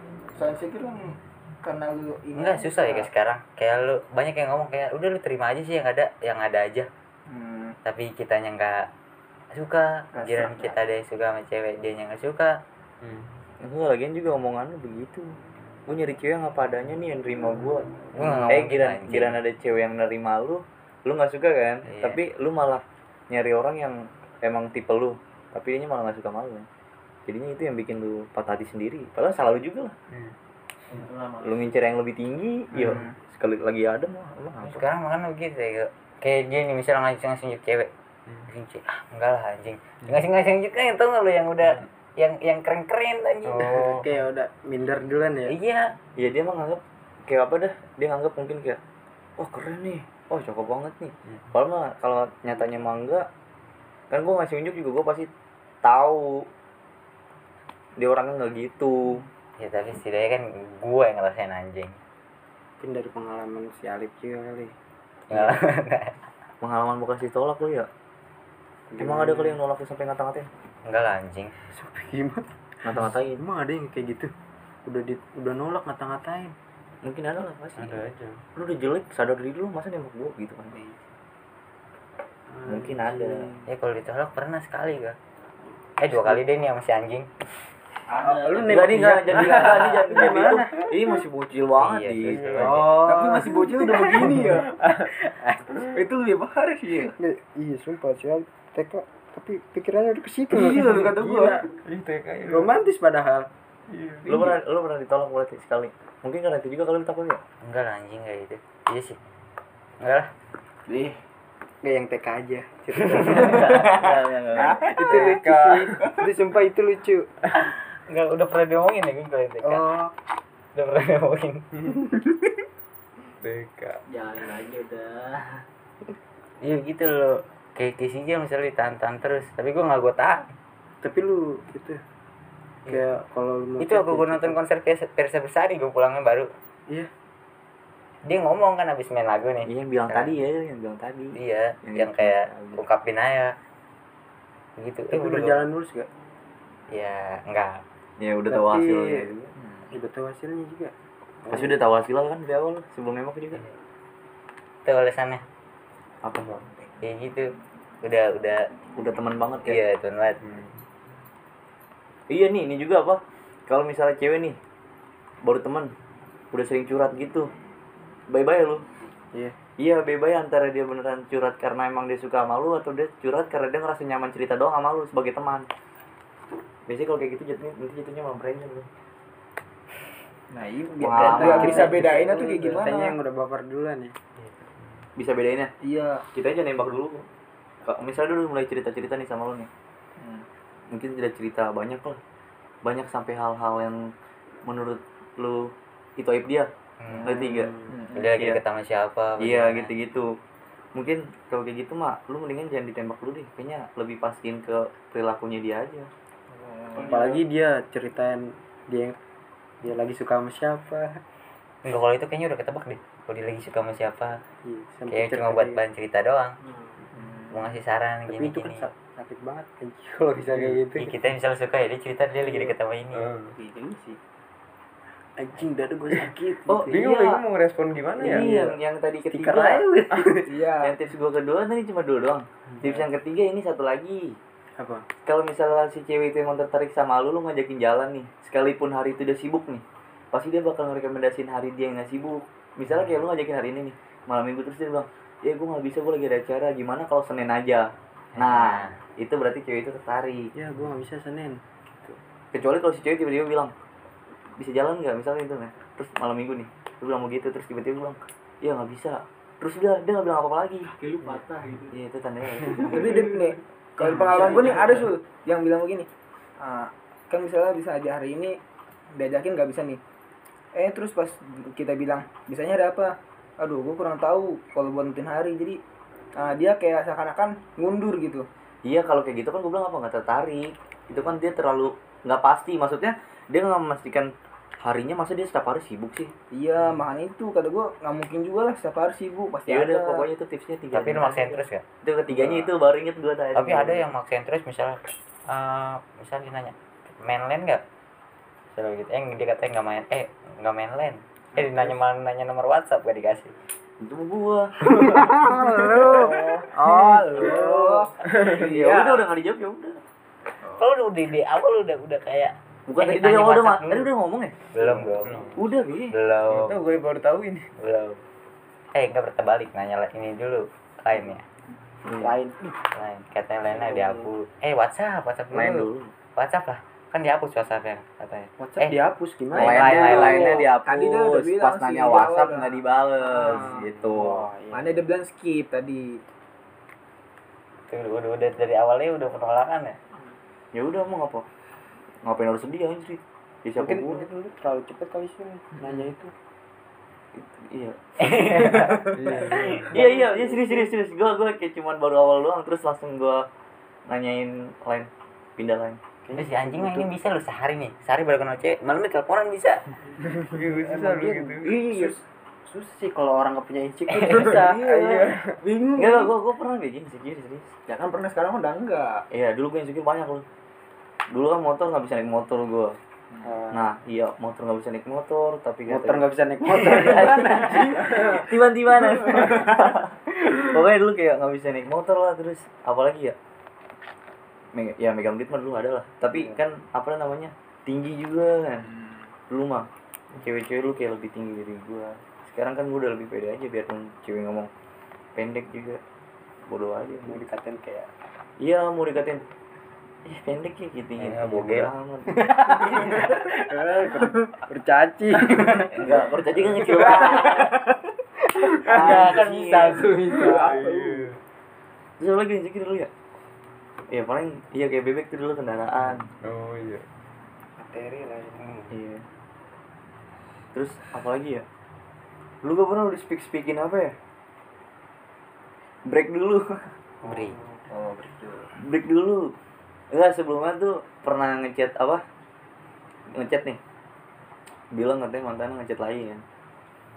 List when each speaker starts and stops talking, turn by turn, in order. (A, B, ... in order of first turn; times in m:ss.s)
0:00.4-0:03.1 A
0:02.4-0:06.9 B
0:07.3-0:07.8 A
0:07.8-0:08.9 B
0:09.5-0:12.6 B
0:10.2-0:10.8 A
0:13.0-0:13.4 C
0:13.6-0:15.3 D
0:15.9-0:17.9 D
0:18.1-0:19.4 B
0:18.5-0:26.7 D
0:21.9-0:22.2 B
0:27.3-0:30.0 D
0:30.9-0:31.7 E
0:31.4-0:34.8 D
0:32.7-0:33.0 C
0:32.8-0:33.2 A
0:34.6-0:37.9 B
0:38.5-0:44.0 B
0:43.5-0:44.1 C
0:43.6-0:45.5 F
0:45.5-0:45.9 B
0:46.2-0:48.8 D
0:49.4-0:53.3 D
0:54.1-0:55.3 D
0:55.8-0:56.5 D
0:58.0-0:59.2 D
0:59.6-1:02.0 B
1:02.8-1:04.7 F
1:05.3-1:06.2 B
1:05.3-1:05.6 D
1:06.6-1:07.9 D
1:08.9-1:09.6 F
1:09.0-1:10.5 D
1:10.8-1:11.5 B
1:11.7-1:12.5 F
1:12.8-1:13.4 D
1:13.1-1:14.3 F
1:14.8-1:16.6 F
1:17.0-1:18.0 D
1:18.1-1:18.4 C
1:18.6-1:20.8 D
1:22.5-1:23.6 F
1:22.6-1:23.5 D
1:23.7-1:25.2 B
1:26.0-1:27.4 B
1:28.1-1:29.0 E
1:28.2-1:30.9 F
1:28.6-1:32.5 D
1:31.8-1:33.0 B
1:32.4-1:34.6 F
1:32.6-1:32.9 C
1:33.0-1:34.7 A
1:34.5-1:35.1 C
1:35.2-1:35.8 F
1:35.7-1:37.1 A
1:37.2-1:41.6 F
1:40.5-1:41.6 A
1:41.7-1:42.7 C
1:42.5-1:43.5 F
1:43.9-1:44.3 C
1:44.3-1:47.4 D
1:47.6-1:49.2 B
1:50.0-1:50.3 B
1:50.9-1:51.2 A
1:51.8-1:54.0 F
1:53.1-1:53.6 B
1:53.3-1:54.8 D
1:53.7-1:54.0 A
1:54.6-1:55.3 A
1:54.6-1:57.3 F
1:54.8-1:56.1 C
1:57.6-2:00.0 B
1:59.6-2:00.1 F
2:00.8-2:01.7 B
2:03.4-2:04.0 C
2:04.1-2:05.6 E
2:06.6-2:10.5 B
2:11.0-2:12.0 F
2:12.9-2:14.6 F
2:13.8-2:16.5 B
2:18.2-2:20.4 B
2:19.6-2:22.8 D
2:21.4-2:23.5 B
2:24.8-2:25.6 B
2:25.1-2:26.1 F
2:26.9-2:27.8 B
2:28.2-2:29.5 D
2:28.5-2:29.3 F
2:29.6-2:29.9 A
2:29.9-2:30.9 F
2:31.5-2:31.8 F
2:31.5-2:33.6 D
2:34.8-2:35.4 B
2:36.2-2:36.6 D
2:37.0-2:37.5 B
2:38.0-2:38.6 B
2:39.0-2:39.8 D
2:39.6-2:40.4 B
2:40.4-2:40.8 C
2:42.3-2:44.6 D
2:45.4-2:45.9 D
2:46.5-2:47.5 D
2:48.3-2:48.8 D
2:49.8-2:55.7 D
2:56.9-2:58.9 D
3:00.5-3:03.2 A
3:01.0-3:02.3 D
3:01.1-3:04.2 F
3:05.2-3:05.7 D
3:05.8-3:06.2 A
3:06.3-3:07.3 D
3:07.8-3:09.7 D
3:10.2-3:10.5 A
3:10.9-3:12.2 D
3:12.8-3:14.0 D
3:14.7-3:16.7 D
3:17.0-3:17.3 B
3:17.2-3:18.3 A
3:17.2-3:17.7 D
3:17.3-3:17.9 F
3:18.1-3:19.9 B
3:19.4-3:20.3 D
3:21.0-3:26.1 D
3:26.5-3:27.2 A
3:26.9-3:27.4 E
3:27.0-3:29.2 F
3:29.8-3:31.2 F
3:31.8-3:34.4 B
3:34.6-3:35.8 F
3:35.1-3:36.6 B
3:37.1-3:37.6 A
3:37.5-3:38.9 B
3:38.3-3:41.1 F
3:41.0-3:43.3 B
3:43.2-3:43.6 C
3:43.6-3:44.2 A
3:45.4-3:47.0 F
3:46.7-3:47.4 D
3:46.9-3:48.5 C
3:48.2-3:49.9 D
3:48.2-3:48.8 F
3:49.3-3:50.5 F
3:50.4-3:51.0 A
3:50.8-3:54.4 D
3:54.8-3:55.1 F
3:55.2-4:10.5 D
4:08.4-4:08.9 B
4:10.6-4:12.2 F
4:12.5-4:13.7 D
4:14.6-4:20.9 D
4:20.8-4:22.0 E
4:21.9-4:23.3 D
4:22.8-4:23.2 E
4:22.8-4:26.1 A
4:24.1-4:24.5 F
4:24.1-4:25.0 D
4:24.3-4:25.1 E
4:26.6-4:28.6 A
4:29.2-4:30.0 A
4:30.8-4:35.8 A
4:36.4-4:38.5 A
4:38.8-4:44.3 D
4:44.8-4:46.3 D
4:46.5-4:50.3 A
4:49.7-4:54.1 D
4:50.9-4:51.8 B
4:52.3-4:52.7 A
4:53.6-4:57.8 B
4:58.7-5:03.6 B
5:04.0-5:05.3 D
5:05.0-5:08.1 F
5:05.7-5:09.2 A
5:08.4-5:10.0 D
5:10.8-5:14.1 B
5:12.9-5:14.6 D
5:14.7-5:15.5 B
5:15.2-5:15.6 C
5:15.6-5:16.1 D
5:16.1-5:16.8 B
5:16.5-5:17.7 C
5:17.8-5:18.2 B
5:18.9-5:21.4 B
5:22.1-5:22.6 F
5:22.9-5:29.0 B
5:25.5-5:26.1 D
5:28.6-5:30.4 F
5:29.6-5:34.4 D
5:29.6-5:30.7 B
5:29.6-5:33.9 A
5:33.5-5:35.0 F
5:34.7-5:36.2 A
5:37.9-5:40.0 B
5:40.7-5:41.5 D
5:42.2-5:44.2 D
5:43.8-5:46.3 F
5:47.4-5:48.9 D
5:48.2-5:49.9 B
5:49.1-5:49.9 C
5:49.5-5:50.9 F
5:49.9-5:53.4 D
5:54.1-5:56.0 D
5:56.2-5:57.1 F
5:56.4-5:59.8 B
6:00.4-6:02.1 C
6:00.5-6:06.3 F
6:04.2-6:05.4 A
6:04.7-6:05.6 C
6:06.0-6:07.8 D
6:07.9-6:09.2 A
6:09.3-6:10.4 D
6:11.3-6:13.0 D
6:13.3-6:13.6 A
6:13.4-6:13.9 F
6:13.7-6:23.4 D
6:15.9-6:18.5 F
6:24.8-6:28.9 D
6:28.9-6:29.2 A
6:29.5-6:29.9 D
6:30.4-6:34.7 D
6:35.4-6:36.0 D
6:36.7-6:37.4 D
6:37.2-6:38.1 F
6:38.6-6:39.4 D
6:40.2-6:42.6 D
6:41.2-6:41.9 B
6:42.3-6:47.9 F
6:45.9-6:47.8 D
6:48.5-6:50.8 F
6:48.8-6:50.2 D
6:48.9-6:51.2 A
6:50.5-6:51.4 C
6:52.2-6:53.1 D
6:54.1-6:56.3 D
6:56.4-6:57.0 C
6:57.8-6:58.8 F
6:58.9-6:59.2 D
7:00.7-7:01.6 D
7:02.6-7:04.2 D
7:06.1-7:06.9 D
7:07.2-7:07.6 B
7:07.3-7:07.7 F
7:07.9-7:08.7 A
7:08.8-7:09.5 D
7:10.1-7:12.2 D
7:13.3-7:13.8 D
7:14.9-7:16.4 D